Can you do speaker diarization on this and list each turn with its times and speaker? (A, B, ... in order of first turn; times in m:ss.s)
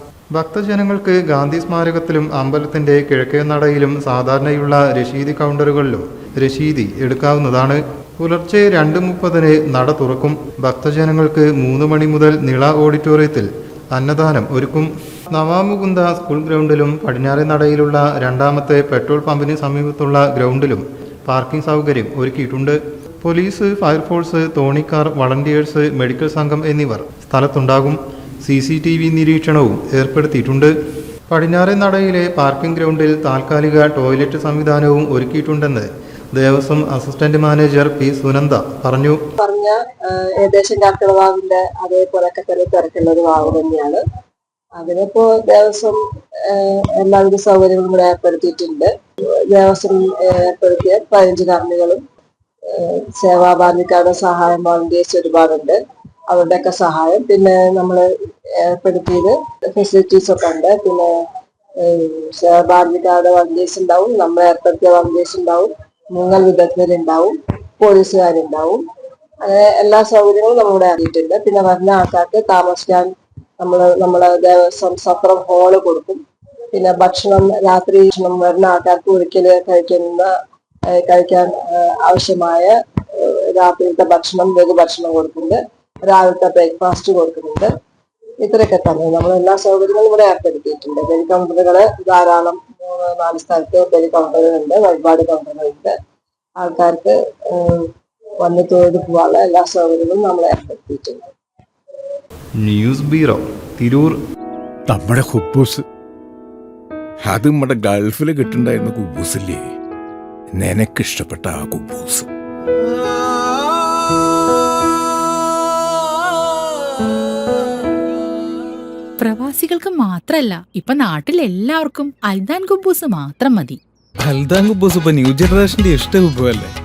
0:00.3-0:30.7 A
0:31.3-0:39.2 A
0:39.4-0:44.0 B
0:44.8-0:52.0 B
0:52.7-1:01.1 B
1:01.8-1:08.8 B
1:09.4-1:20.3 B
1:20.9-1:27.7 B
1:28.4-1:35.9 B
1:36.6-1:37.9 B
1:38.4-1:41.3 B
1:42.6-1:44.2 A
1:44.9-1:45.8 C
1:47.2-1:49.6 C
1:50.5-1:52.3 C
1:59.2-2:03.8 D
2:04.2-2:06.7 E